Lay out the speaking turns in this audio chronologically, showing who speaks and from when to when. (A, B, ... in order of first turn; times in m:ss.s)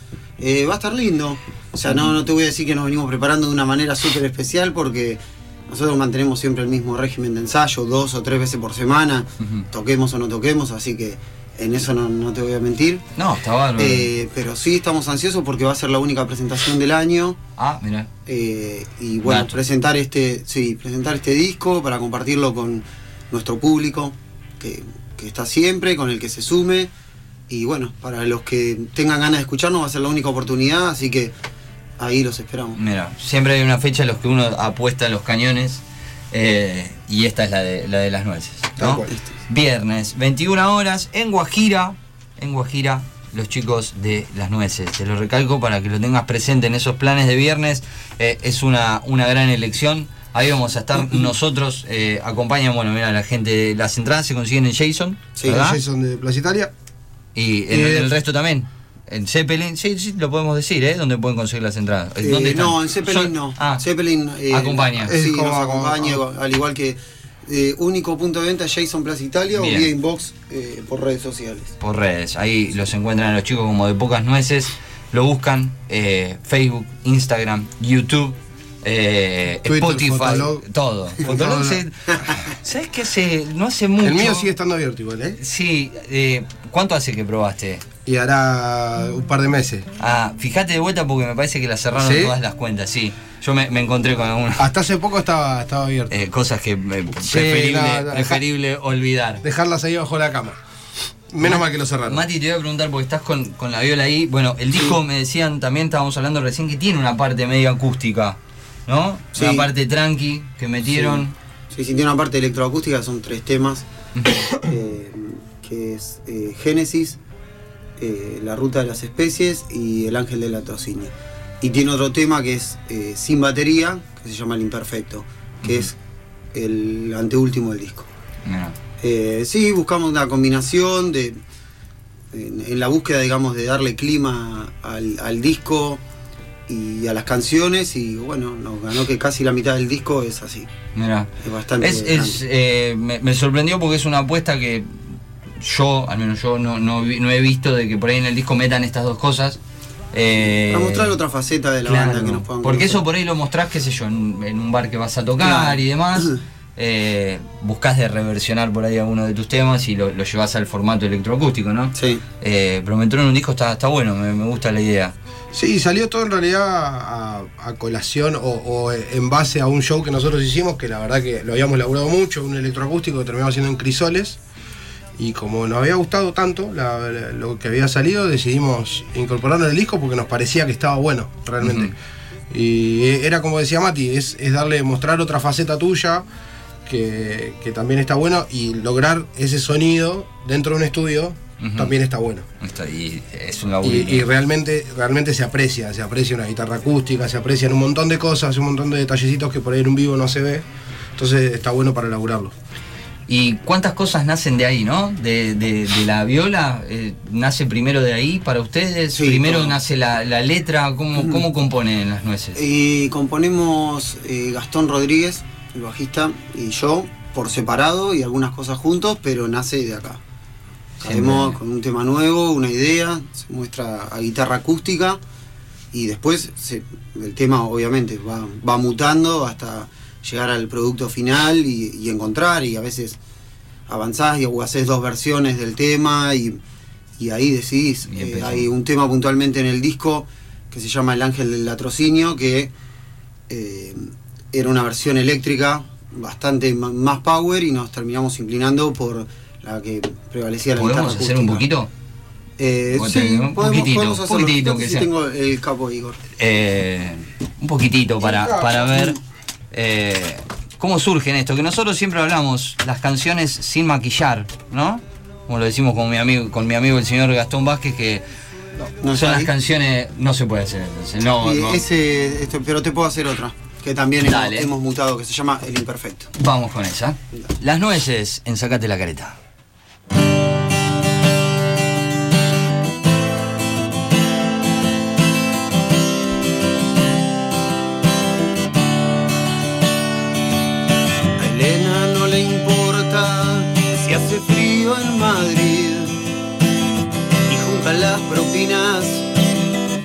0:00.4-0:13.1 A
0:09.4-0:09.6 B
0:13.2-0:14.1 B
0:13.8-0:17.4 A
0:17.6-0:18.1 B
0:18.2-0:26.9 A
0:19.2-0:19.6 B
0:27.5-0:31.3 A
0:32.0-0:32.8 A
0:32.8-0:55.8 B
0:38.8-0:39.1 C
0:55.4-0:55.7 A
0:55.4-0:56.7 C
0:57.4-1:03.8 B
0:57.7-0:58.1 C
1:02.2-1:11.8 A
1:04.5-1:05.1 B
1:05.0-1:06.2 C
1:09.6-1:09.9 B
1:11.8-1:24.5 B
1:19.6-1:20.7 C
1:21.2-1:21.8 C
1:24.0-1:25.4 C
1:25.4-1:27.8 B
1:28.1-1:29.9 C
1:30.0-1:34.7 B
1:32.0-1:32.3 C
1:34.6-1:36.2 C
1:36.1-1:39.4 B
1:37.2-1:38.4 C
1:39.4-1:40.6 C
1:41.3-1:42.2 C
1:41.4-1:51.4 B
1:49.4-1:49.7 A
1:50.9-1:53.9 A
1:54.1-1:54.5 B
1:54.5-1:57.2 A
1:58.0-2:06.0 A
2:06.5-2:08.1 A
2:08.5-2:08.8 B
2:09.0-2:11.4 A
2:12.3-2:16.0 A
2:16.7-2:20.7 A
2:21.0-2:21.3 B
2:21.4-2:22.4 A
2:21.8-2:29.6 B
2:30.1-2:31.1 B
2:30.5-2:33.0 A
2:31.9-2:45.1 B
2:35.4-2:36.3 A
2:42.0-2:42.2 A
2:45.5-2:54.4 C
2:55.2-3:02.0 C
3:01.6-3:02.0 B
3:02.5-3:06.2 C
3:06.9-3:12.5 C
3:11.6-3:11.9 B
3:12.6-3:14.3 B
3:13.8-3:22.5 C
3:23.3-3:32.6 B
3:29.1-3:29.8 A
3:31.2-3:31.4 A
3:32.6-3:40.2 A
3:41.0-3:41.6 B
3:41.0-3:45.2 A
3:45.9-3:53.2 A
3:53.9-3:56.6 A
3:57.2-4:02.7 A
3:58.1-3:58.7 B
4:03.5-4:11.6 A
4:10.8-4:11.9 B
4:12.6-4:16.2 A
4:12.9-4:15.1 B
4:16.4-4:19.2 B
4:18.3-4:19.2 A
4:19.7-4:28.2 B
4:28.8-4:29.5 A
4:29.1-4:31.8 B
4:31.4-4:36.3 A
4:34.2-4:34.7 B
4:36.4-4:39.4 B
4:51.4-4:56.2 A
4:57.5-4:59.3 A